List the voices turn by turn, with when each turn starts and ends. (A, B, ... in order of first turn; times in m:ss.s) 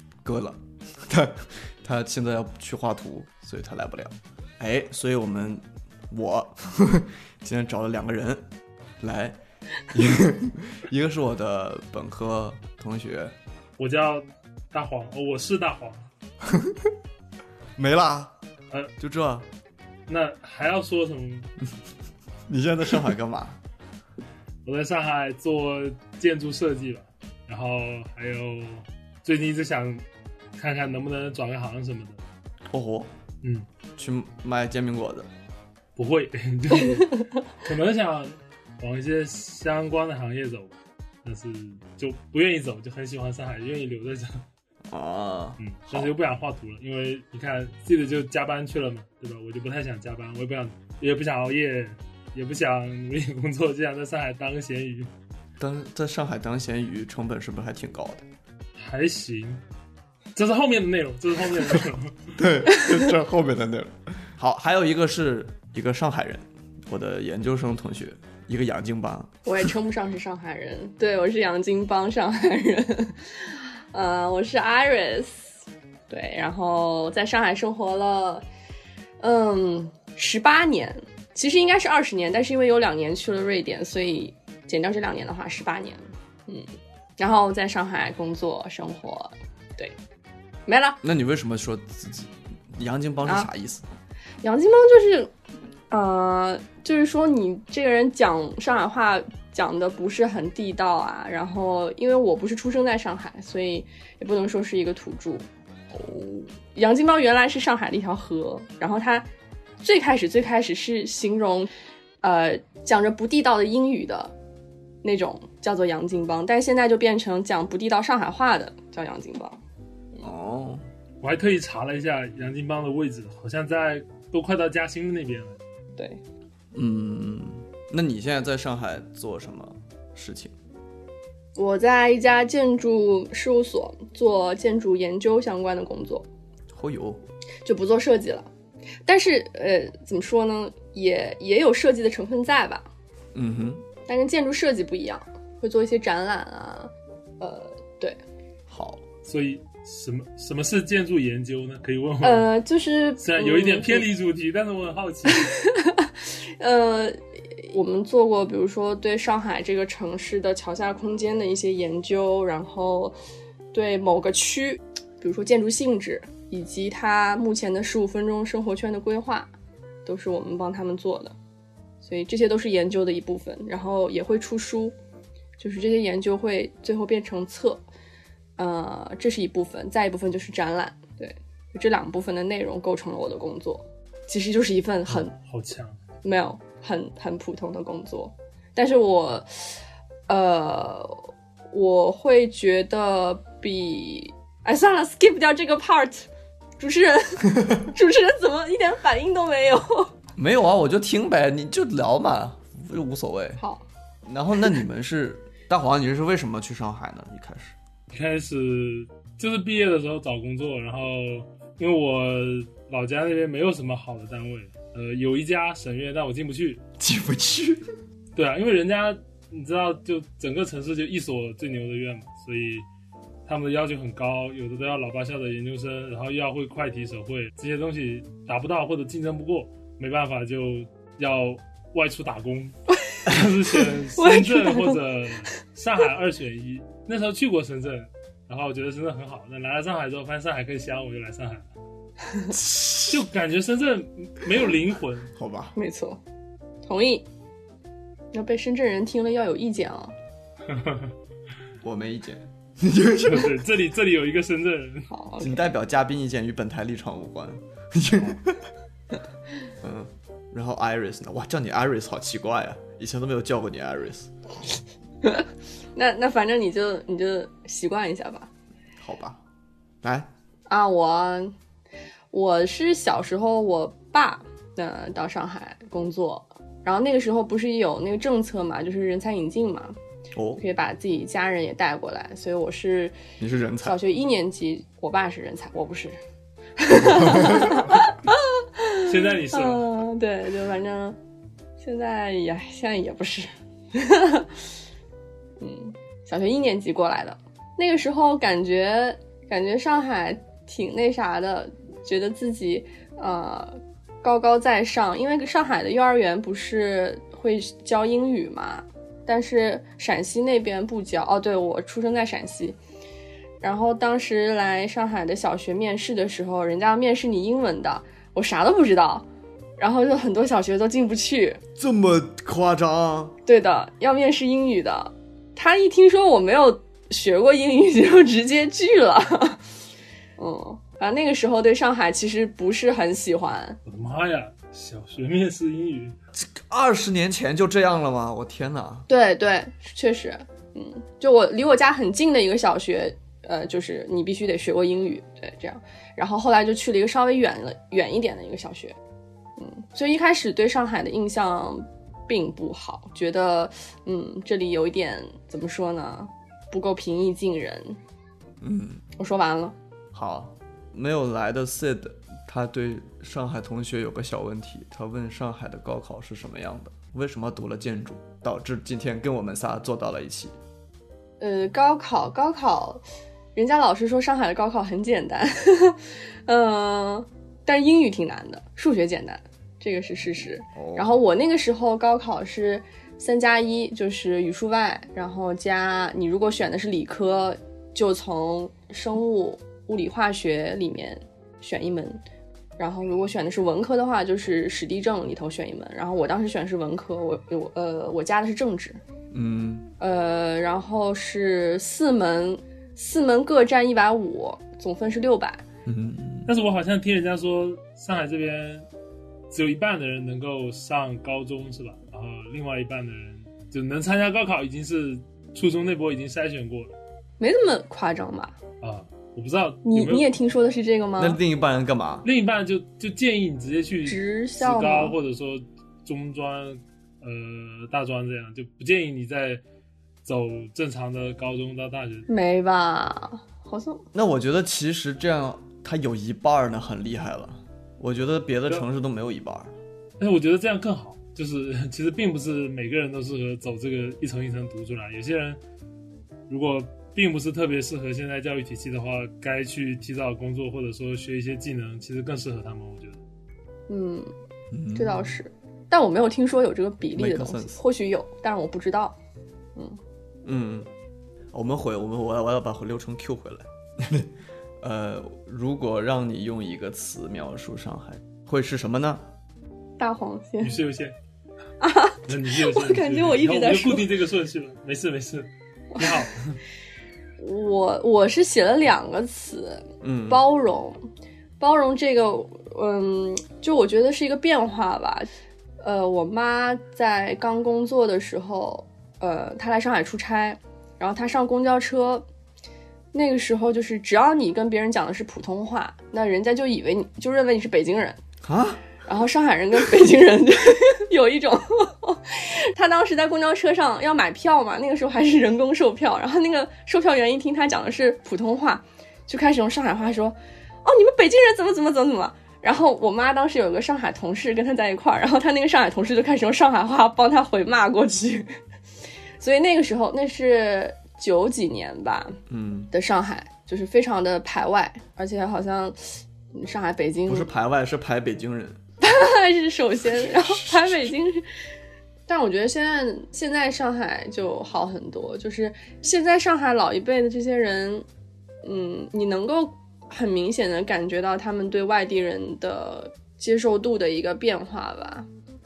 0:00.2-0:08.4 A
0:09.0-0:09.4 A
0:09.9-0:13.3 A
0:13.8-0:16.1 B
0:16.4-0:16.9 A
0:17.8-0:18.3 A
0:19.0-0:19.5 A
0:20.1-0:21.5 B
0:22.5-0:23.6 A
0:24.6-0:30.0 B
0:30.6-0:32.2 B
0:32.7-0:33.1 A
0:34.0-0:35.3 A
0:36.0-0:44.4 B
0:44.9-0:46.1 A
0:45.6-0:55.1 B
0:55.6-0:58.2 A
0:58.8-0:59.6 B
1:00.4-1:02.3 B
1:02.4-1:09.7 A
1:09.4-1:15.6 C
1:16.1-1:18.4 C
1:19.2-1:29.9 C
1:30.6-1:31.0 C
1:31.0-1:33.8 A
1:34.4-1:35.3 C
1:35.9-1:45.4 C
1:45.9-1:46.5 A
1:46.7-1:49.3 C
1:49.8-1:51.7 C
1:52.2-1:54.3 C
1:55.0-1:59.6 C
2:00.2-2:00.8 A
2:01.2-2:05.6 B
2:06.7-2:10.5 A
2:11.6-2:16.2 C
2:16.7-2:17.2 A
2:17.6-2:18.5 C
2:19.0-2:22.9 C
2:23.3-2:23.8 A
2:24.1-2:28.2 C
2:28.7-2:29.0 A
2:29.2-2:32.5 B
2:32.2-2:34.0 C
2:33.2-2:35.5 B
2:35.4-2:43.2 C
2:43.7-2:49.5 C
2:50.0-2:51.3 C
2:52.0-2:54.9 C
2:55.6-2:57.8 C
2:58.6-3:05.3 C
3:05.1-3:06.0 B
3:06.2-3:09.7 C
3:10.3-3:11.2 C
3:11.7-3:16.3 C
3:16.8-3:20.1 C
3:20.4-3:23.6 A
3:23.6-3:23.8 C
3:24.2-3:27.8 A
3:28.1-3:36.8 B
3:37.0-3:37.9 A
3:38.3-3:42.8 B
3:43.5-4:01.7 B
3:54.2-3:55.0 C
4:02.5-4:03.2 A
4:03.1-4:05.3 B
4:05.3-4:05.7 A
4:05.8-4:06.2 C
4:06.8-4:07.2 C
4:08.3-4:10.1 C
4:10.7-4:11.1 B
4:11.8-4:13.5 A
4:13.2-4:15.1 B
4:15.1-4:15.7 C
4:15.4-4:18.7 A
4:19.8-4:24.3 A
4:26.0-4:28.5 C
4:29.0-4:29.4 A
4:30.0-4:30.3 A
4:30.7-4:31.5 C
4:32.3-4:40.0 C
4:40.3-4:40.6 A
4:40.6-4:43.1 C
4:43.4-4:44.0 A
4:43.8-4:46.2 C
4:46.8-4:51.2 C
4:49.0-4:49.8 B
4:51.8-4:54.6 C
4:55.6-5:12.8 C
5:13.6-5:19.2 C
5:19.8-5:21.6 C
5:21.8-5:23.3 A
5:23.4-5:29.6 C
5:30.4-5:33.8 C
5:33.8-5:36.1 B
5:36.3-5:39.0 A
5:39.1-5:48.9 C
5:49.6-5:58.0 C
5:58.6-5:59.0 A
5:59.2-5:59.7 C
6:00.1-6:10.6 A
6:11.4-6:13.0 C
6:13.5-6:32.2 C
6:20.7-6:21.1 A
6:32.8-6:39.0 C
6:39.3-6:39.9 A
6:40.0-6:45.6 C
6:45.8-6:46.5 A
6:46.4-6:48.8 B
6:49.5-6:57.0 B
6:57.4-6:58.5 C
6:58.8-7:00.3 B
6:59.8-7:01.4 C
7:01.2-7:02.3 A
7:02.2-7:09.6 B
7:04.0-7:05.2 C
7:10.2-7:12.2 B
7:12.3-7:14.0 C
7:14.1-7:19.7 A
7:20.2-7:25.6 B
7:26.5-7:33.2 B
7:33.9-7:34.3 C
7:34.7-7:35.4 A
7:34.9-7:39.2 C
7:37.1-7:37.8 A
7:40.4-7:40.9 A
7:41.5-7:49.2 A
7:50.0-7:50.7 C
7:50.6-7:51.2 B
7:51.8-7:54.1 C
7:52.2-7:56.6 B
7:55.9-7:56.2 C
7:57.4-8:01.0 C
8:00.0-8:00.4 A
8:01.6-8:05.3 C
8:05.8-8:12.2 C
8:13.1-8:18.2 C
8:18.4-8:18.8 A
8:19.0-8:38.5 C
8:39.4-8:42.4 C
8:42.5-8:42.9 A
8:42.9-8:47.5 C
8:47.3-8:48.8 A
8:49.0-8:51.4 C
8:50.1-8:51.1 A
8:52.3-8:58.0 C
8:58.6-9:05.3 C